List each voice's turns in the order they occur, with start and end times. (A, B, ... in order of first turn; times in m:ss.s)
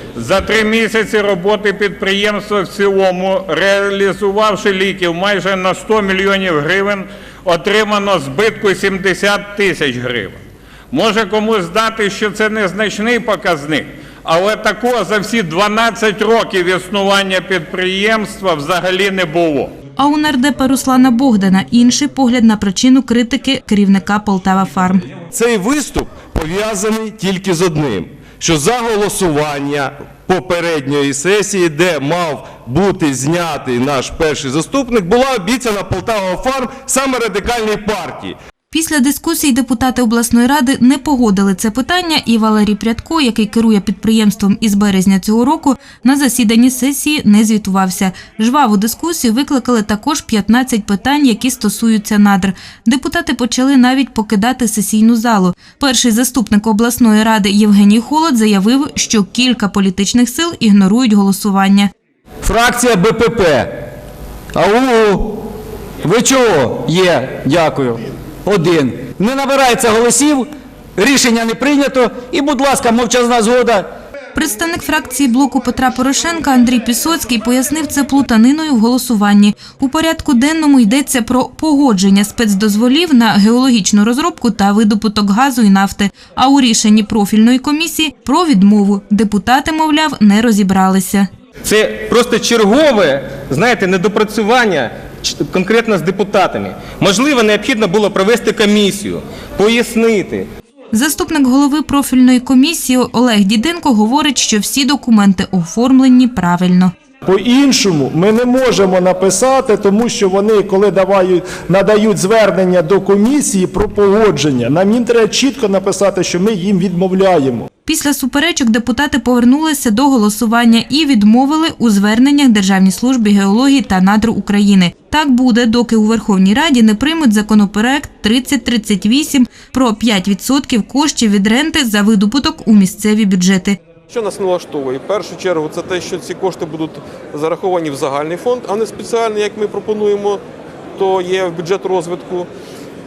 0:00.1-0:10.4 A
0:10.9-0:19.7 A
0:20.0-0:25.0 B
0:25.3-0:38.4 C
0:38.7-1:01.9 B
1:02.4-1:03.7 D
1:04.5-1:05.2 D
1:06.0-1:13.8 D
1:14.3-1:31.3 B
1:31.6-1:40.5 E
1:40.9-1:46.9 B
1:47.3-1:57.7 F
1:57.9-2:13.8 B
2:14.1-2:20.4 G
2:21.0-2:22.5 G